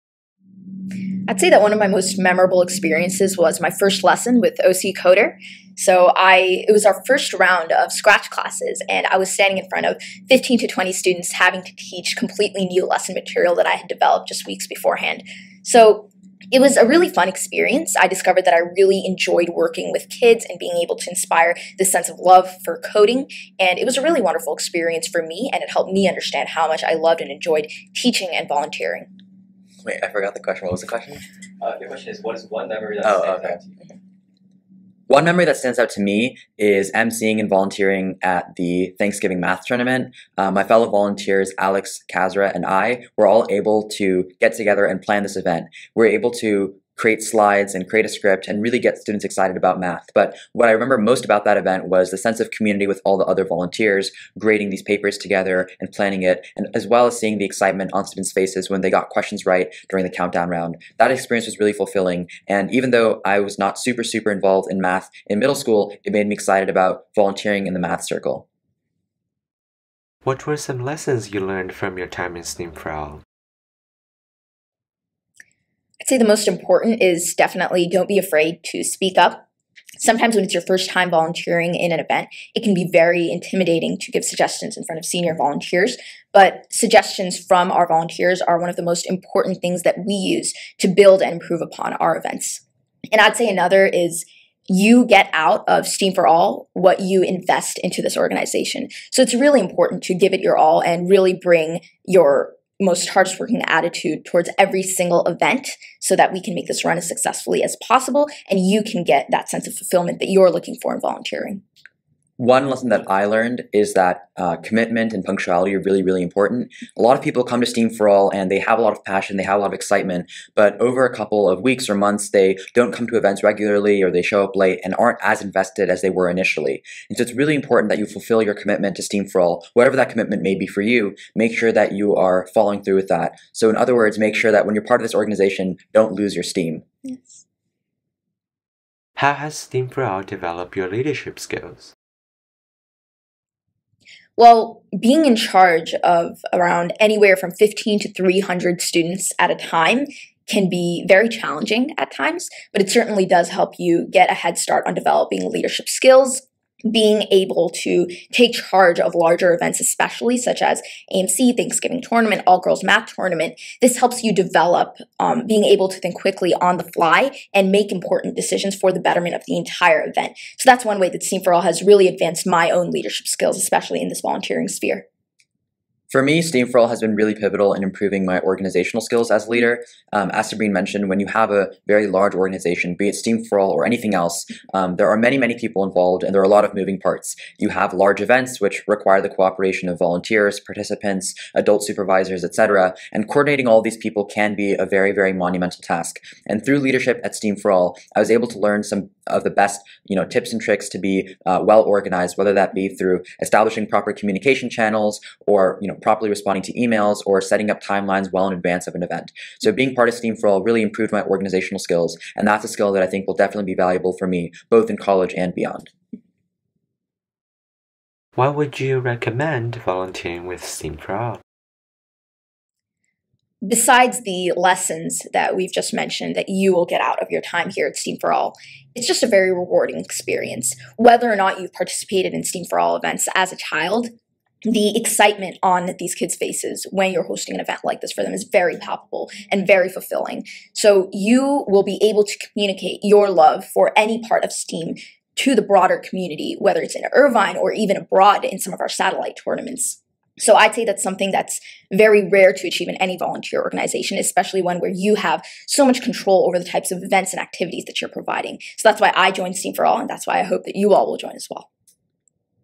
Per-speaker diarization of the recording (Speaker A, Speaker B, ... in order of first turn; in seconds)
Speaker A: 1.3-29.1, 76.0-79.4, 80.0-111.6, 137.0-137.4, 144.4-175.0, 223.6-234.1, 234.7-261.7
Speaker B: 29.8-31.3, 33.0-33.5, 35.1-68.4, 112.4-136.8, 176.1-215.9
Speaker C: 31.6-33.8
Speaker D: 70.2-73.2, 139.2-141.9, 218.3-221.4